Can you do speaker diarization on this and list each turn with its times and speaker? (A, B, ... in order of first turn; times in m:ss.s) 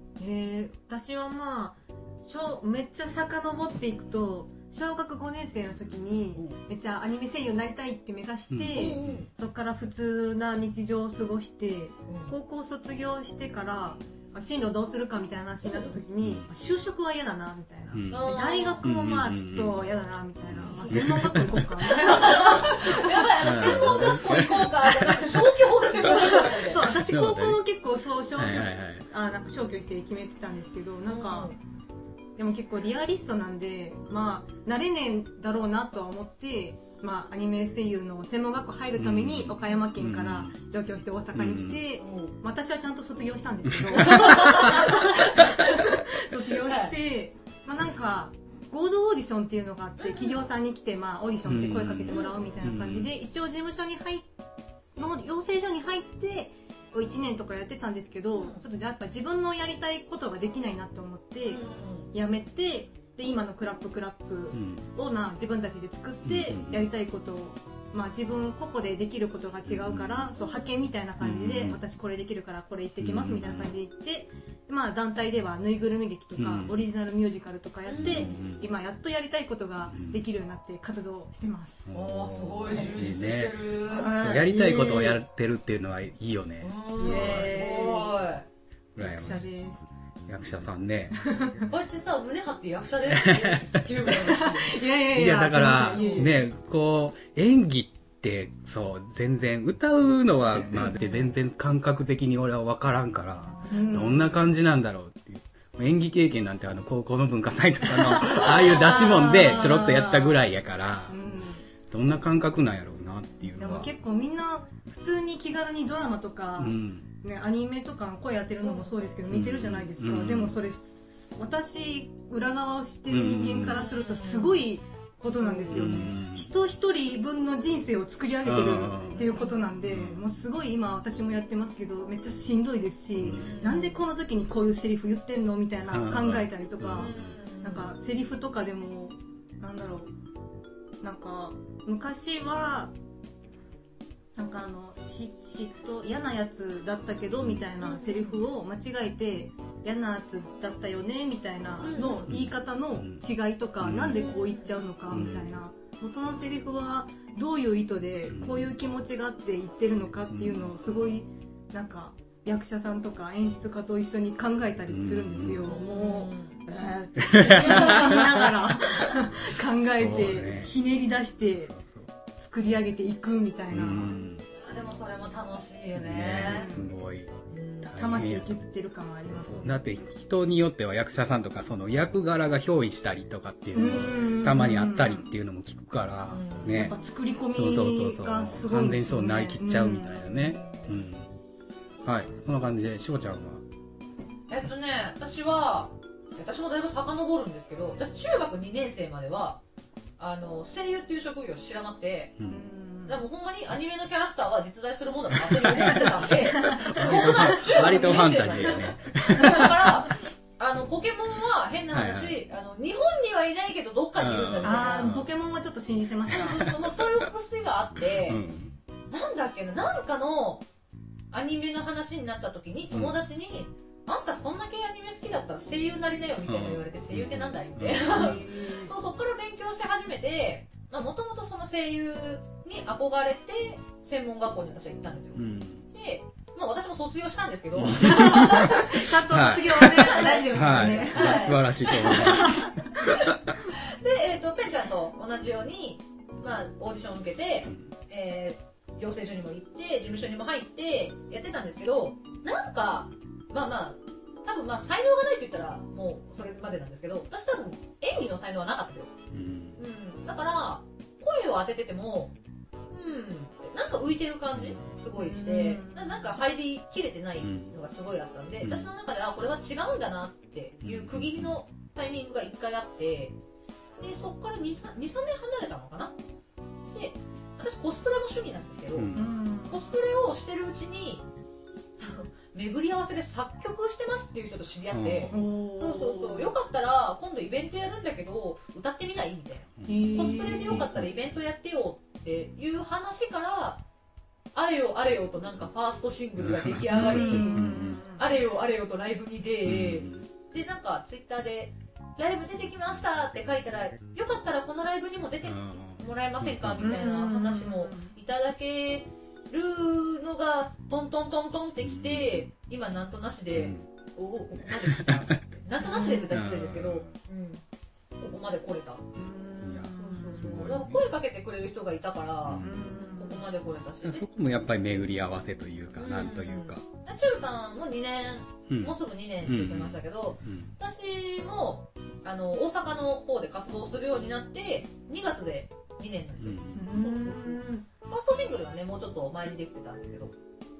0:00.2-0:24.3 A
0:08.5-0:09.3 B
0:08.8-0:09.3 C
0:12.1-0:12.3 C
0:15.6-0:15.9 C
0:16.2-0:16.5 B
0:17.9-0:19.8 B
0:18.1-0:18.8 C
0:20.5-0:21.7 B
0:20.7-0:21.1 C
0:21.9-0:26.9 C
0:23.4-0:25.3 B
0:25.9-0:31.6 A
0:26.8-0:27.6 B
0:28.4-0:29.0 B
0:31.1-0:31.6 C
0:32.4-0:54.3 A
0:39.0-0:40.5 B
0:41.3-0:41.8 B
0:42.0-0:42.3 C
0:43.7-0:44.5 B
0:44.0-0:45.9 C
0:46.6-0:46.9 C
0:50.0-0:50.4 C
0:51.5-0:53.1 B
0:52.1-0:52.4 C
0:55.0-1:21.9 A
0:58.3-0:58.6 C
1:01.4-1:02.1 C
1:04.5-1:04.8 B
1:06.2-1:06.9 B
1:09.7-1:10.3 B
1:11.2-1:11.8 B
1:13.0-1:13.7 B
1:16.4-1:16.8 B
1:17.9-1:18.4 C
1:18.0-1:18.7 B
1:19.9-1:20.2 B
1:21.9-1:27.6 B
1:21.9-1:24.1 C
1:23.9-1:25.2 A
1:26.6-1:28.4 C
1:27.0-1:28.1 A
1:29.0-1:29.5 B
1:29.0-1:29.9 A
1:30.3-1:31.2 B
1:31.2-1:31.7 A
1:31.7-1:34.9 C
1:33.1-1:33.9 B
1:34.3-1:36.4 A
1:35.1-1:51.2 B
1:35.7-1:36.3 C
1:43.7-1:44.4 A
1:47.9-1:50.4 A
1:51.1-1:51.6 A
1:51.9-1:53.9 B
1:53.6-2:20.1 A
1:56.6-1:57.1 B
1:58.6-1:58.9 C
1:59.3-2:00.6 B
2:03.1-2:03.8 B
2:03.7-2:04.7 C
2:05.2-2:06.1 C
2:05.7-2:06.5 B
2:08.4-2:09.3 B
2:09.2-2:09.6 C
2:09.9-2:10.3 B
2:13.2-2:13.5 B
2:13.3-2:14.0 C
2:15.9-2:17.2 B
2:17.0-2:17.9 C
2:21.0-2:22.9 A
2:24.4-2:51.7 A
2:27.4-2:27.6 B
2:27.8-2:28.4 C
2:31.8-2:32.3 C
2:32.2-2:33.2 B
2:33.8-2:34.3 B
2:34.1-2:34.8 C
2:35.1-2:35.5 B
2:38.3-2:38.7 B
2:40.3-2:40.8 B
2:44.9-2:45.7 B
2:45.6-2:46.6 C
2:47.2-2:48.5 B
2:47.5-2:48.3 C
2:49.8-2:50.7 B
2:51.6-2:52.1 B
2:52.4-2:54.2 A
2:53.7-2:54.5 B
2:54.6-2:56.7 C
2:56.0-2:57.3 B
2:56.4-2:56.8 A
2:57.5-2:58.0 C
2:57.9-2:59.8 A
2:57.9-2:58.5 B
2:59.2-3:07.0 B
3:03.7-3:05.2 A
3:06.3-3:06.9 C
3:06.7-3:10.5 A
3:07.5-3:11.3 B
3:10.5-3:11.0 C
3:12.0-3:13.6 B
3:14.5-3:19.6 C
3:20.2-3:22.3 C
3:22.5-3:23.2 A
3:23.1-3:35.2 C
3:25.3-3:30.0 B
3:25.7-3:28.8 A
3:31.9-3:32.4 B
3:34.2-3:35.3 B
3:34.6-3:36.7 A
3:36.3-3:38.4 C
3:36.4-3:36.7 B
3:38.0-3:38.7 B
3:39.1-3:40.7 C
3:41.3-4:02.5 C
3:46.5-3:48.4 B
3:48.0-3:48.9 A
3:55.4-3:55.8 B
3:57.8-4:03.5 B
3:58.0-4:02.6 A
4:03.1-4:19.1 C
4:19.3-4:19.8 B
4:19.8-4:22.4 C
4:22.9-4:33.4 C
4:24.5-4:24.8 B
4:25.2-4:26.3 A
4:27.4-4:27.7 B
4:28.6-4:28.9 B
4:30.8-4:31.6 B
4:34.0-4:36.2 C
4:36.9-4:39.1 C
4:38.9-4:39.2 B
4:39.1-4:39.8 A
4:39.7-4:41.3 C
4:42.0-4:53.8 C
4:44.9-4:45.4 B
4:45.3-4:46.5 A
4:49.8-4:51.1 B
4:49.8-4:50.8 A
4:54.5-5:17.6 C
4:56.4-4:58.0 B
4:56.9-4:58.3 A
4:59.6-5:00.3 B
5:05.4-5:07.0 B
5:06.8-5:08.1 A
5:11.8-5:12.5 B
5:13.5-5:13.9 B
5:14.6-5:15.4 B
5:15.8-5:16.3 A
5:16.3-5:17.2 B
5:18.2-5:19.0 C
5:19.2-5:20.7 A
5:19.6-5:21.0 B
5:20.0-5:24.3 C
5:22.5-5:22.7 B
5:22.6-5:23.4 A
5:24.0-5:26.8 B
5:26.0-5:40.3 C
5:28.7-5:30.8 B
5:36.4-5:36.8 B
5:36.8-5:37.9 A